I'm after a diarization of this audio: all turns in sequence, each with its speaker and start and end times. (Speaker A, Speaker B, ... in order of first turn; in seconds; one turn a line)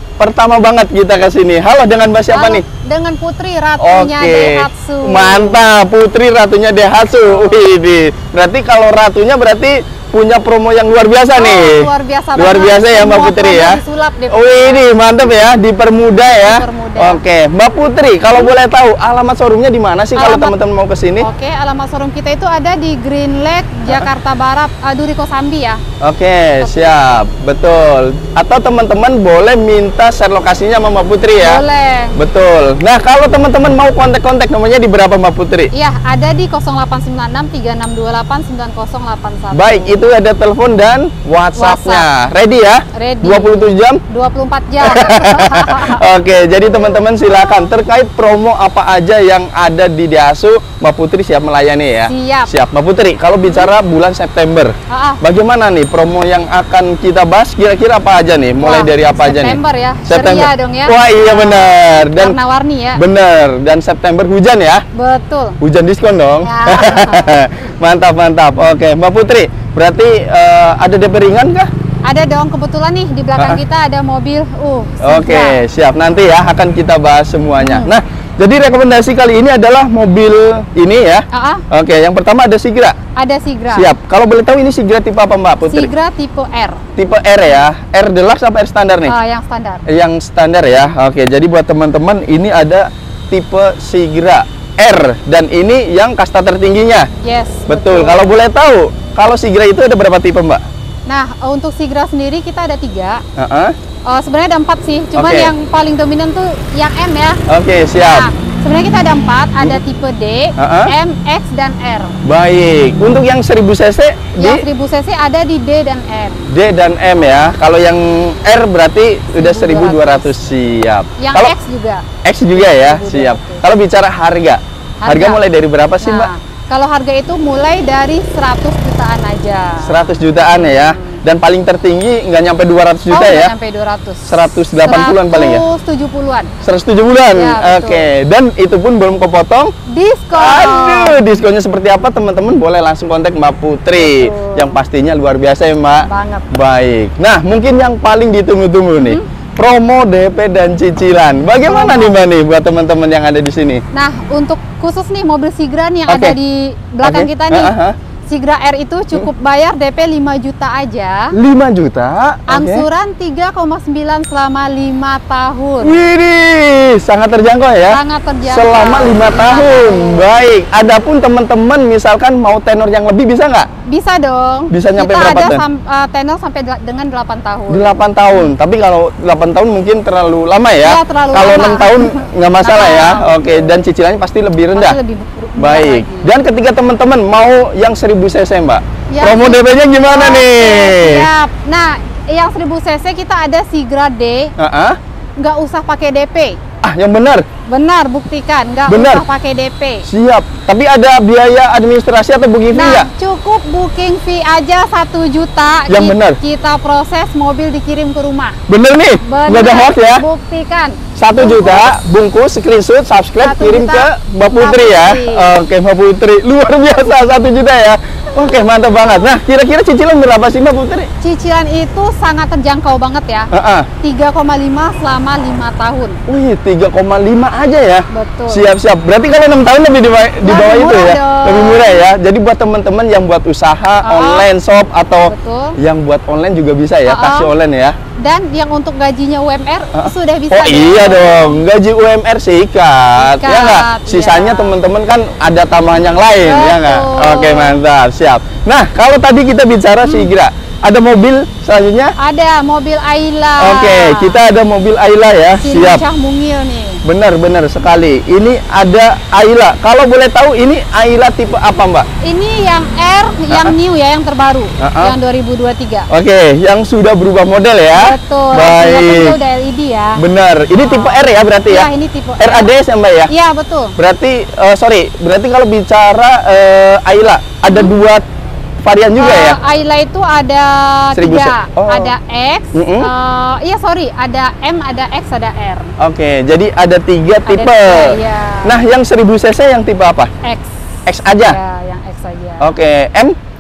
Speaker A: 0.2-2.6
Speaker B: 2.3-5.6
Speaker A: 3.8-21.3
Speaker B: 7.3-7.6
Speaker B: 11.3-14.9
Speaker B: 16.3-17.2
Speaker B: 20.2-20.6
Speaker B: 21.2-25.8
Speaker A: 26.0-31.6
Speaker B: 26.6-27.0
Speaker B: 31.4-32.2
Speaker A: 32.1-35.7
Speaker B: 35.7-40.0
Speaker A: 39.5-44.0
Speaker B: 41.6-42.1
Speaker B: 42.9-46.0
Speaker A: 44.8-62.4
Speaker B: 46.6-47.7
Speaker B: 52.1-52.5
Speaker B: 53.5-53.7
Speaker B: 54.9-55.2
Speaker B: 58.6-63.0
Speaker A: 63.0-64.8
Speaker B: 64.9-65.6
Speaker A: 65.6-71.7
Speaker B: 66.4-67.3
Speaker B: 72.0-75.6
Speaker A: 73.4-73.6
Speaker A: 75.0-83.0
Speaker B: 77.6-77.9
Speaker B: 81.3-81.7
Speaker B: 83.2-83.9
Speaker A: 83.7-85.9
Speaker B: 85.7-86.8
Speaker A: 87.0-89.1
Speaker B: 89.1-89.8
Speaker A: 89.9-97.1
Speaker B: 97.2-98.2
Speaker A: 97.7-100.6
Speaker B: 101.1-103.2
Speaker A: 103.4-103.8
Speaker B: 104.1-107.4
Speaker A: 105.2-105.5
Speaker A: 107.5-108.3
Speaker B: 108.0-112.2
Speaker A: 110.6-110.9
Speaker A: 112.2-114.6
Speaker B: 114.4-116.5
Speaker A: 116.5-121.5
Speaker B: 119.3-120.3
Speaker B: 121.2-123.6
Speaker A: 122.2-126.3
Speaker B: 125.0-125.4
Speaker B: 126.0-131.2
Speaker A: 129.8-133.5
Speaker B: 133.1-136.5
Speaker A: 134.3-135.6
Speaker A: 136.6-139.7
Speaker B: 137.3-138.1
Speaker B: 139.9-141.2
Speaker A: 140.3-153.8
Speaker B: 144.0-144.8
Speaker B: 146.1-146.5
Speaker B: 149.0-149.3
Speaker B: 151.6-152.2
Speaker B: 153.9-157.7
Speaker A: 156.1-156.4
Speaker A: 157.0-157.9
Speaker B: 158.3-161.3
Speaker A: 161.3-162.9
Speaker B: 162.5-166.0
Speaker A: 165.8-173.7
Speaker B: 167.9-170.3
Speaker B: 173.9-178.5
Speaker A: 174.7-175.6
Speaker A: 177.7-185.0
Speaker B: 180.8-183.8
Speaker B: 184.8-186.3
Speaker A: 185.6-191.3
Speaker B: 189.1-194.6
Speaker A: 194.6-195.0
Speaker B: 195.4-196.6
Speaker A: 196.8-197.5
Speaker B: 197.7-200.1
Speaker A: 198.9-199.2
Speaker A: 200.1-203.1
Speaker B: 202.7-208.6
Speaker A: 205.9-206.4
Speaker A: 208.7-210.2
Speaker B: 209.2-211.9
Speaker A: 211.2-221.1
Speaker B: 213.4-215.5
Speaker B: 221.2-223.5
Speaker A: 223.5-223.9
Speaker B: 224.0-226.2
Speaker A: 226.3-237.9
Speaker B: 228.1-228.7
Speaker B: 230.4-232.1
Speaker B: 234.0-234.5
Speaker B: 235.2-235.8
Speaker B: 237.1-237.5
Speaker B: 238.2-241.6
Speaker A: 239.9-252.2
Speaker B: 243.2-244.8
Speaker B: 246.4-247.8
Speaker B: 250.1-250.3
Speaker B: 252.2-254.4
Speaker A: 253.6-256.0
Speaker B: 255.6-257.0
Speaker A: 257.0-262.1
Speaker B: 262.2-266.1
Speaker A: 263.5-263.8
Speaker A: 264.8-265.1
Speaker A: 266.1-269.4
Speaker B: 267.9-270.2
Speaker A: 270.2-273.3
Speaker B: 270.8-272.7
Speaker B: 273.3-273.9
Speaker A: 274.0-278.2
Speaker B: 277.6-277.9
Speaker A: 278.8-279.6
Speaker B: 279.2-285.9
Speaker A: 281.1-282.1
Speaker A: 282.7-283.1
Speaker A: 286.0-290.3
Speaker B: 287.5-288.8
Speaker B: 290.4-292.7
Speaker A: 291.1-291.6
Speaker A: 292.6-293.4